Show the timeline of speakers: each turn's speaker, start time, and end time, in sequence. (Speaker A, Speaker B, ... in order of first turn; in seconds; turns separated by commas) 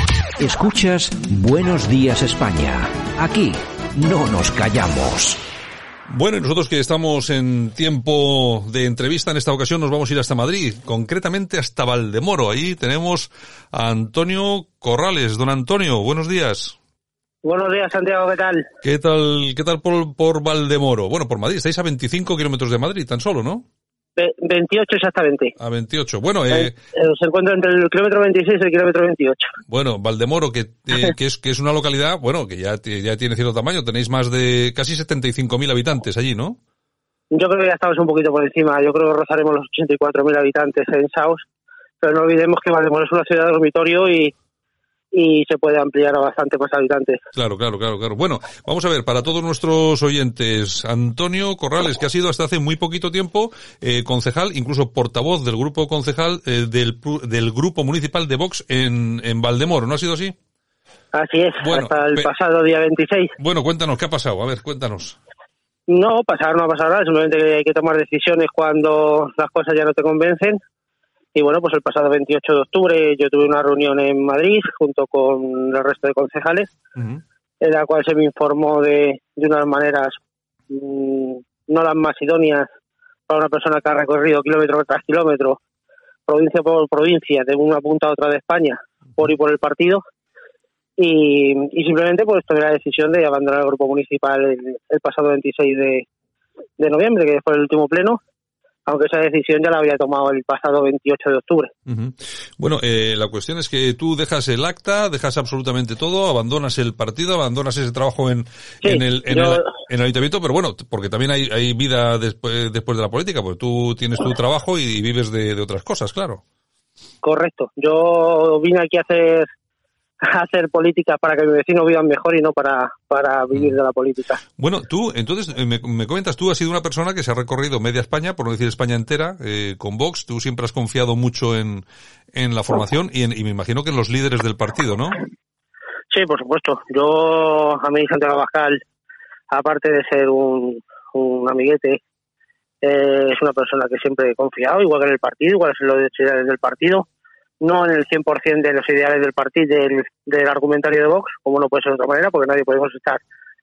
Speaker A: 0.4-5.4, Speaker B: 6.1-16.8, Speaker C: 17.4-18.6, Speaker B: 18.8-23.6, Speaker C: 24.2-25.5, Speaker B: 25.6-26.7, Speaker C: 26.5-29.6, Speaker B: 29.7-36.6, Speaker C: 37.3-41.4, Speaker C: 42.0-44.3, Speaker C: 45.1-47.2, Speaker B: 47.3-60.4, Speaker C: 61.1-63.4, Speaker B: 61.6-62.3, Speaker B: 63.4-65.2, Speaker C: 65.9-70.6, Speaker C: 71.3-76.7, Speaker B: 77.0-77.2, Speaker C: 77.6-80.2, Speaker C: 80.7-82.7, Speaker C: 83.3-85.6, Speaker C: 86.3-90.0, Speaker C: 91.0-96.1, Speaker C: 96.8-98.2, Speaker C: 98.9-101.7, Speaker B: 101.9-116.4, Speaker C: 108.8-109.7, Speaker C: 117.2-119.5, Speaker C: 120.2-124.4, Speaker B: 124.6-135.2, Speaker C: 136.1-138.8, Speaker C: 139.5-142.0, Speaker C: 142.8-147.1, Speaker C: 147.6-153.2